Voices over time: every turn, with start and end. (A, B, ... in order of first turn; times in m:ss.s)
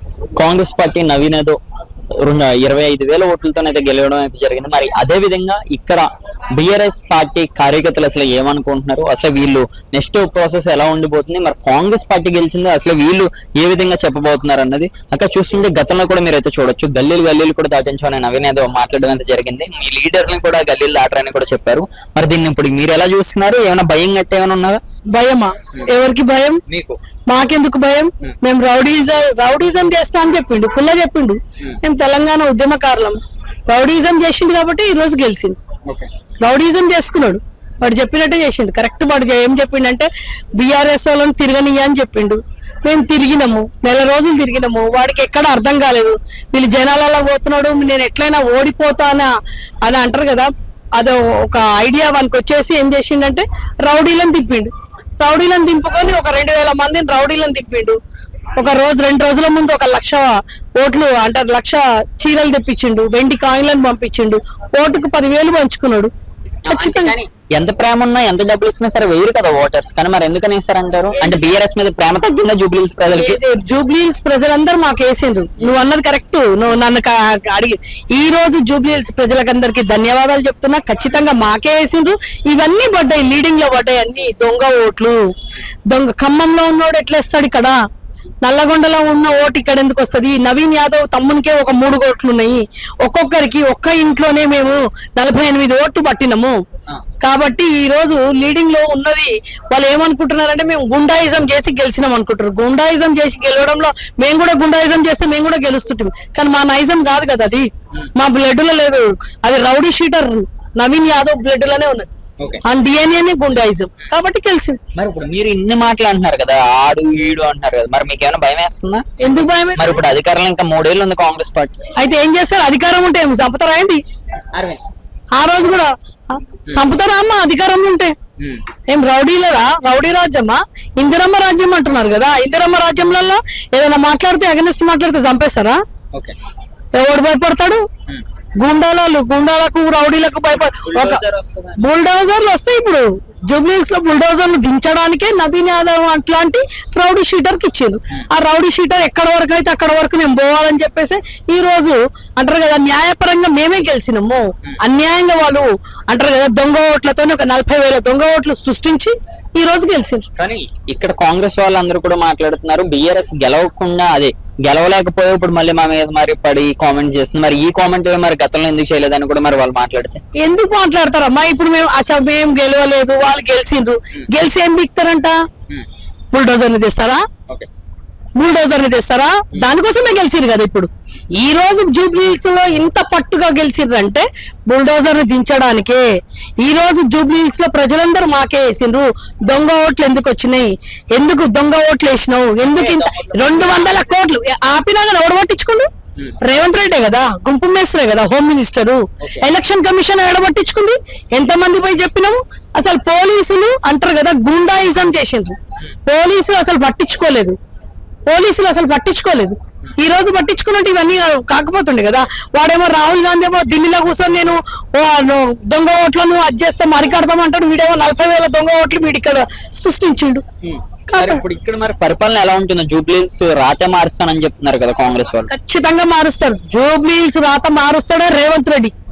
0:00.4-0:01.6 A
0:02.2-0:24.8 A
0:25.1-0:26.6 B
0:26.7-0:27.0 A
0:27.3-0:35.6 B
0:36.4-0:49.3 B
0:49.8-0:58.0 B
0:58.6-1:06.1 B
1:06.6-1:13.4 A
1:06.7-1:07.1 B
1:13.1-1:25.2 B
1:25.9-1:27.8 B
1:28.4-1:36.6 B
1:37.2-1:52.1 B
1:52.6-1:54.8 B
1:55.0-1:59.1 A
1:59.2-2:00.0 B
1:59.8-2:01.8 A
2:02.0-2:04.0 B
2:04.5-2:04.8 A
2:05.4-2:08.2 B
2:08.9-2:15.8 B
2:17.0-2:17.8 B
2:18.6-2:21.2 B
2:20.7-2:21.8 A
2:21.8-2:40.3 B
2:40.4-2:50.2 A
2:50.4-2:55.4 B
2:56.3-2:57.2 B
2:58.4-3:06.1 B
3:06.6-3:15.9 B
3:12.6-3:14.0 A
3:16.4-3:27.6 B
3:19.2-3:19.5 A
3:28.3-3:40.4 B
3:40.6-3:45.5 A
3:41.1-3:41.4 B
3:45.5-3:48.9 B